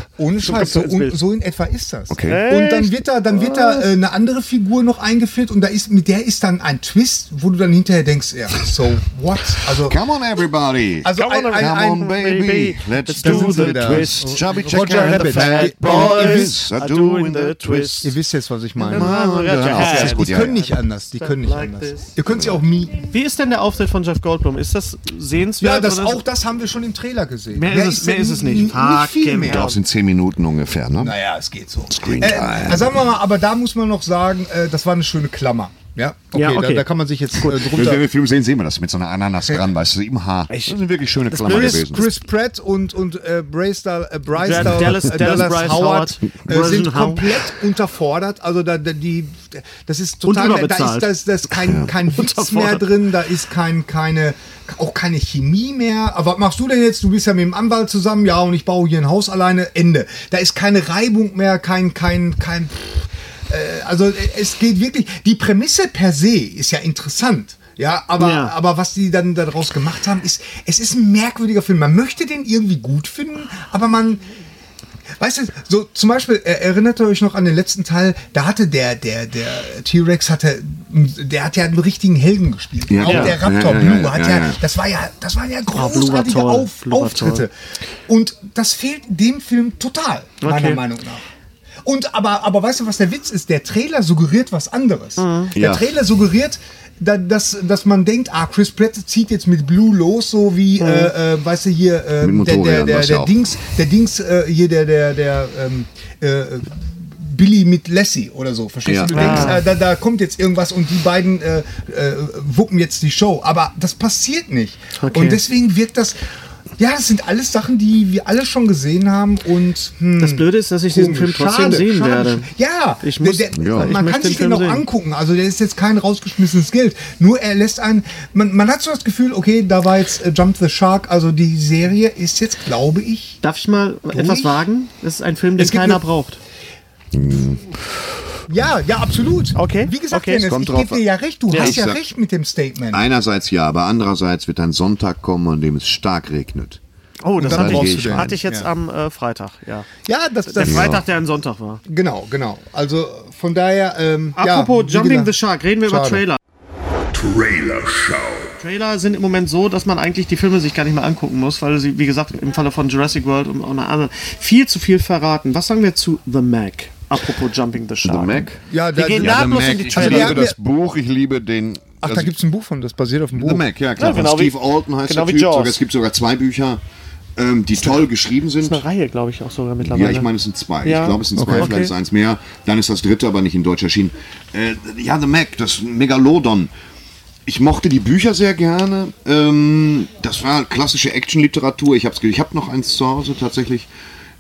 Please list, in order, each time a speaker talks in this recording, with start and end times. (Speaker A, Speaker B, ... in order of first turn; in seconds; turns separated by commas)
Speaker A: 0.2-10.0, Speaker B: 0.4-1.1, Speaker C: 2.1-2.4, Speaker B: 2.2-3.9, Speaker C: 9.7-18.1, Speaker A: 11.0-12.1, Speaker B: 11.2-18.1, Speaker A: 13.2-16.7, Speaker A: 18.0-23.1, Speaker B: 18.8-22.1, Speaker C: 18.8-20.6, Speaker C: 22.3-22.6, Speaker B: 23.0-26.2, Speaker A: 25.6-29.7, Speaker B: 27.5-29.8, Speaker C: 29.4-31.1, Speaker A: 31.0-38.0, Speaker C: 31.9-33.0, Speaker B: 36.3-36.9, Speaker B: 37.4-37.6, Speaker C: 37.6-42.1, Speaker B: 40.5-40.8, Speaker B: 41.3-41.9, Speaker A: 41.4-74.2, Speaker B: 44.4-47.4, Speaker B: 50.2-52.9, Speaker B: 68.2-68.5, Speaker A: 75.2-87.5, Speaker C: 82.9-84.6, Speaker B: 83.0-83.3, Speaker B: 85.7-87.4, Speaker A: 88.1-91.2, Speaker B: 90.4-90.8, Speaker A: 91.8-116.2, Speaker B: 95.2-95.5, Speaker C: 95.5-95.8, Speaker B: 100.8-101.1, Speaker C: 102.2-103.4, Speaker C: 108.8-109.5, Speaker B: 109.1-109.6, Speaker B: 115.0-115.4, Speaker A: 116.8-133.4, Speaker B: 120.2-122.5, Speaker B: 123.0-124.8, Speaker C: 123.5-124.0, Speaker B: 133.4-136.4, Speaker A: 134.1-134.6, Speaker A: 135.6-136.0, Speaker C: 137.1-137.7, Speaker A: 138.5-143.0, Speaker B: 139.5-140.4, Speaker C: 140.4-142.0, Speaker B: 141.5-141.8, Speaker C: 142.9-146.8, Speaker B: 147.2-149.9, Speaker A: 147.4-148.7, Speaker C: 147.4-148.4, Speaker A: 150.0-151.0, Speaker B: 150.4-151.8, Speaker C: 150.6-151.0, Speaker A: 151.8-155.3, Speaker B: 154.4-156.4, Speaker A: 155.8-156.2, Speaker C: 157.1-158.5, Speaker B: 158.6-170.5, Speaker C: 168.0-172.3, Speaker A: 168.7-170.6, Speaker A: 172.0-173.6, Speaker C: 173.3-176.8, Speaker B: 174.0-175.8, Speaker C: 177.3-178.8, Speaker B: 178.6-180.3, Speaker C: 179.8-186.7, Speaker B: 180.8-181.9, Speaker A: 181.3-181.8, Speaker C: 187.4-193.9